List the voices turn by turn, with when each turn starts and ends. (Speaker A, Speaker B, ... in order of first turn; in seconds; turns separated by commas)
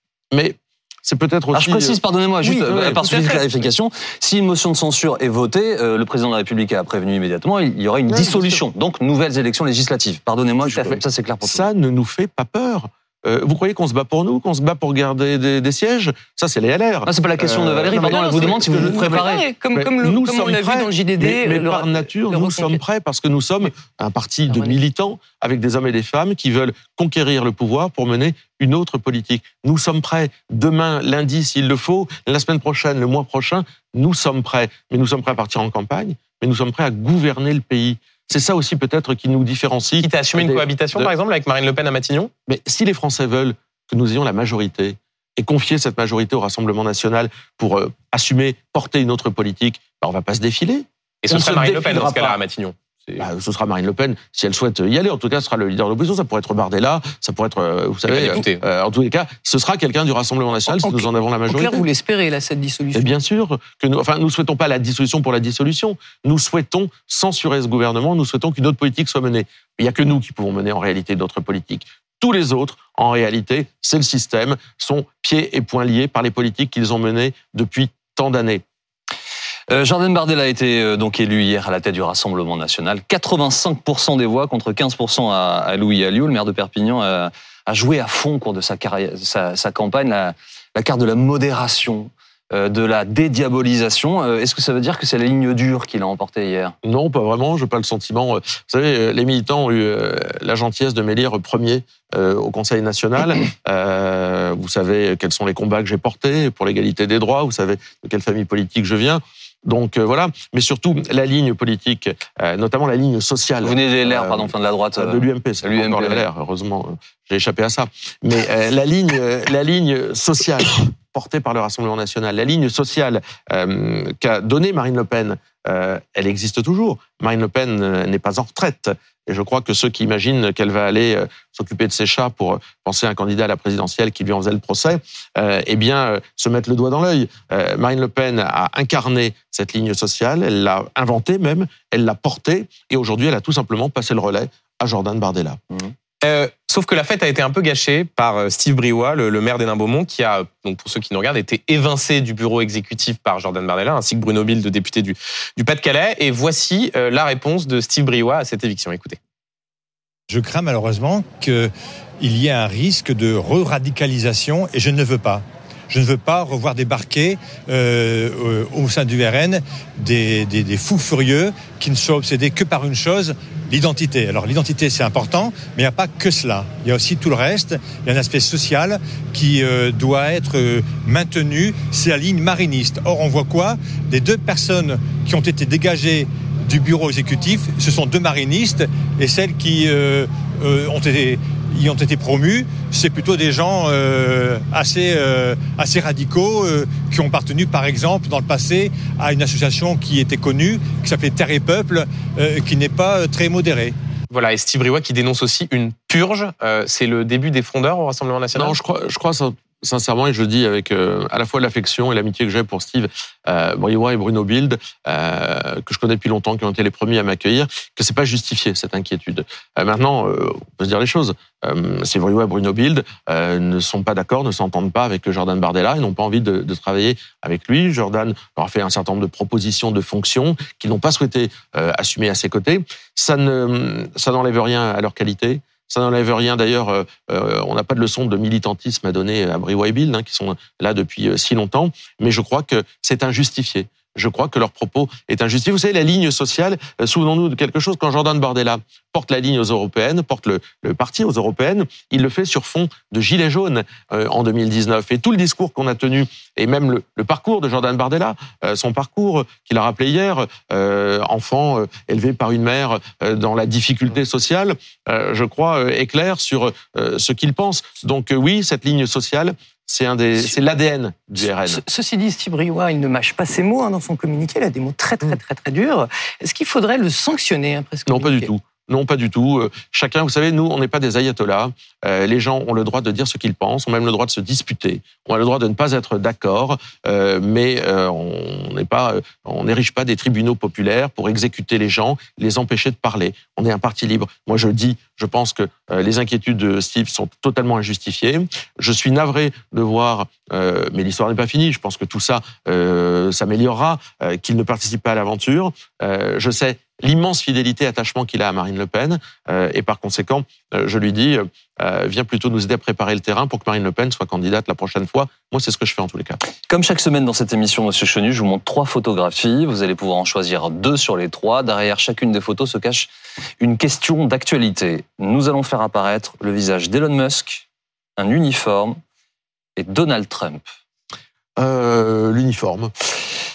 Speaker A: 0.3-2.0, Speaker B: 1.5-11.7, Speaker C: 2.4-3.4, Speaker A: 2.7-3.4, Speaker A: 8.1-8.7, Speaker A: 10.6-41.1, Speaker B: 17.1-19.4, Speaker C: 17.8-22.8, Speaker C: 24.5-24.8, Speaker D: 40.0-42.3, Speaker A: 42.5-52.4, Speaker D: 51.2-53.2, Speaker A: 53.2-61.9, Speaker D: 58.0-58.6, Speaker C: 60.7-63.1, Speaker A: 62.9-78.6, Speaker B: 79.7-96.7, Speaker A: 96.8-145.6, Speaker B: 113.6-116.2, Speaker D: 146.2-159.2, Speaker E: 160.3-203.9, Speaker D: 204.3-208.8, Speaker A: 208.5-271.8, Speaker C: 271.6-278.5, Speaker A: 278.1-316.4, Speaker B: 316.7-323.1, Speaker B: 323.6-327.6, Speaker B: 328.2-329.0, Speaker B: 329.8-330.6, Speaker A: 331.6-332.9